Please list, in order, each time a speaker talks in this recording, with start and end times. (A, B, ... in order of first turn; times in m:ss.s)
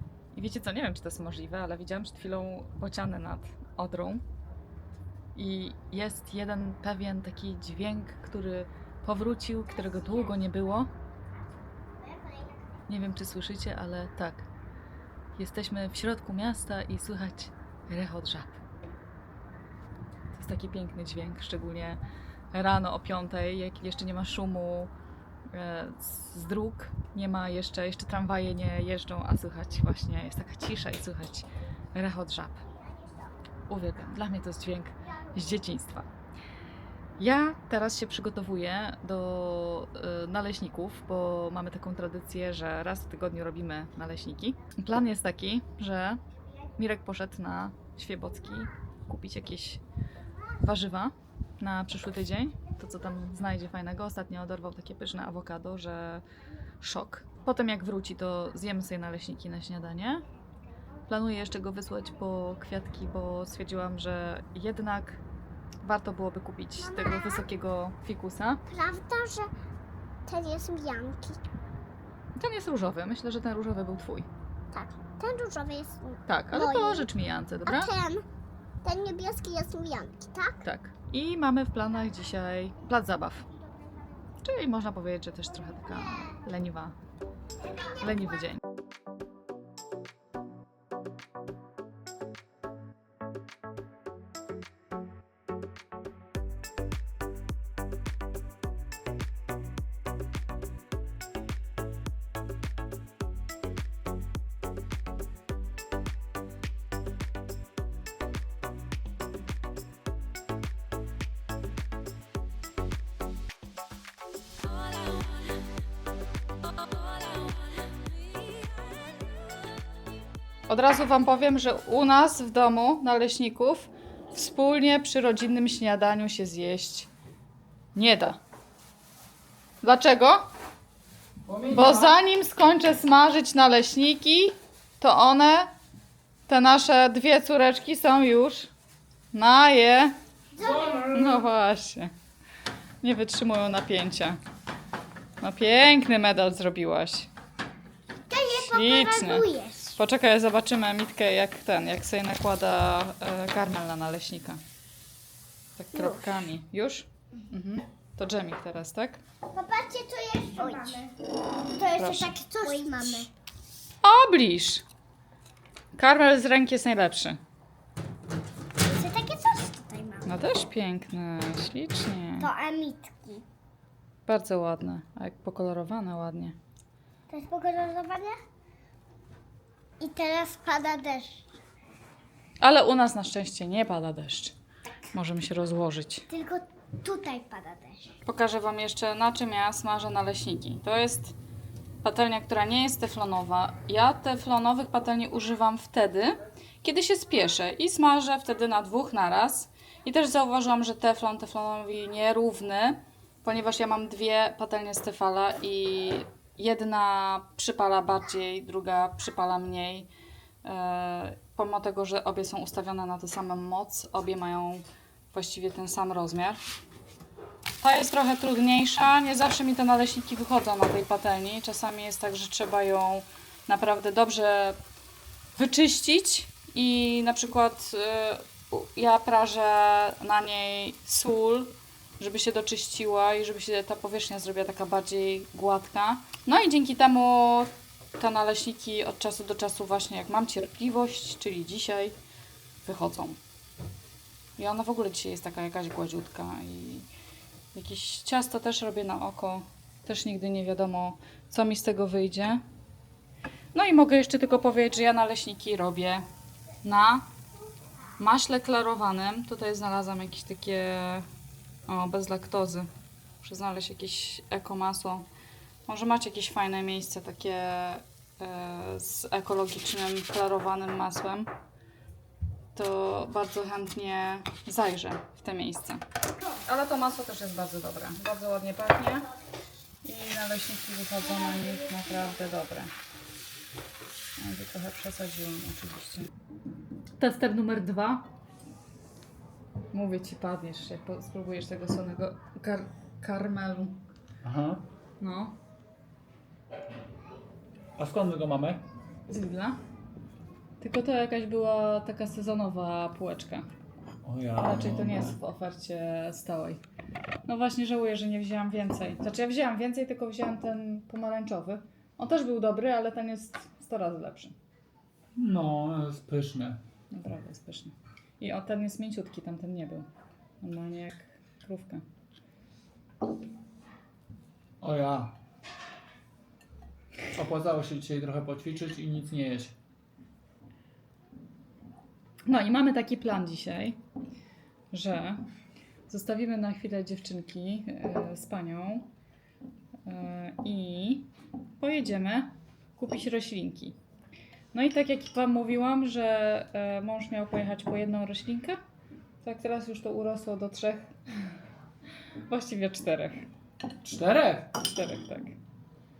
0:00.3-0:04.2 A
0:05.3-0:10.9 A
0:12.9-0:14.4 A
0:15.3-0:18.6 A
0:20.3-0:22.0 A
0:22.5-0:24.9 A
0:25.5-0:32.6 A
0:33.7-0:36.1 A
0:37.2-0:46.2 A
0:46.8-0:49.8 A
0:50.6-0:56.2 A
0:56.8-1:00.2 A
1:01.1-1:05.2 A
1:05.8-1:08.6 A
1:06.8-1:07.4 B
1:08.7-1:09.5 B
1:10.3-1:11.4 B
1:12.4-1:14.3 A
1:14.7-1:17.1 B
1:16.3-1:17.9 A
1:17.6-1:18.2 B
1:18.8-1:20.6 B
1:20.6-1:23.5 A
1:24.4-1:27.0 A
1:28.0-1:28.6 A
2:00.7-2:07.1 A
2:07.9-2:08.4 A
2:09.8-2:10.5 A
2:11.5-2:12.1 C
2:11.7-2:15.7 A
2:16.5-2:18.7 A
2:19.3-2:20.1 A
2:20.6-2:21.1 B
2:20.8-2:22.1 A
2:23.0-2:24.4 A
2:25.4-2:27.3 A
2:28.3-2:30.0 B
2:28.4-2:34.6 A
2:35.8-2:39.2 A
2:35.9-2:36.2 B
2:39.5-2:41.1 B
2:41.7-2:43.3 B
2:41.9-2:42.4 A
2:44.0-2:44.8 A
2:45.9-2:47.4 A
2:48.8-2:50.3 B
2:50.2-2:52.5 A
2:52.4-2:53.4 B
2:54.3-2:56.6 A
2:57.3-2:58.4 B
3:00.0-3:01.4 B
3:02.6-3:04.5 A
3:05.1-3:06.3 A
3:06.3-3:08.1 B
3:08.2-3:11.3 A
3:12.0-3:30.1 A
3:30.6-3:36.6 A
3:37.8-3:44.8 A
3:45.6-4:02.2 A
4:02.8-4:03.4 A
4:04.6-4:07.1 A
4:07.7-4:12.6 A
4:13.7-4:16.2 A
4:16.8-4:17.3 A
4:18.2-4:21.3 A
4:21.9-4:22.9 A
4:23.4-4:25.3 A
4:25.9-4:31.5 A
4:32.7-4:36.0 A
4:36.6-4:39.3 A
4:40.0-4:42.9 A
4:44.4-4:46.3 A
4:47.2-4:48.2 A
4:49.9-4:54.0 A
4:54.4-4:54.8 C
4:55.2-4:55.6 A
4:58.0-4:58.8 C
4:59.3-4:59.8 A
5:00.8-5:03.7 A
5:04.2-5:05.4 C
5:04.5-5:06.8 A
5:07.4-5:14.5 A
5:15.4-5:16.8 C
5:17.1-5:20.1 A
5:20.6-5:22.0 A
5:24.8-5:25.4 C
5:27.3-5:29.7 C
5:32.4-5:34.0 A
5:34.9-5:35.4 A
5:36.1-5:39.1 A
5:40.0-5:44.0 A
5:44.7-5:48.8 A
5:49.4-5:51.2 A
5:52.5-5:53.4 A
5:54.0-5:54.8 C
5:54.8-5:55.6 A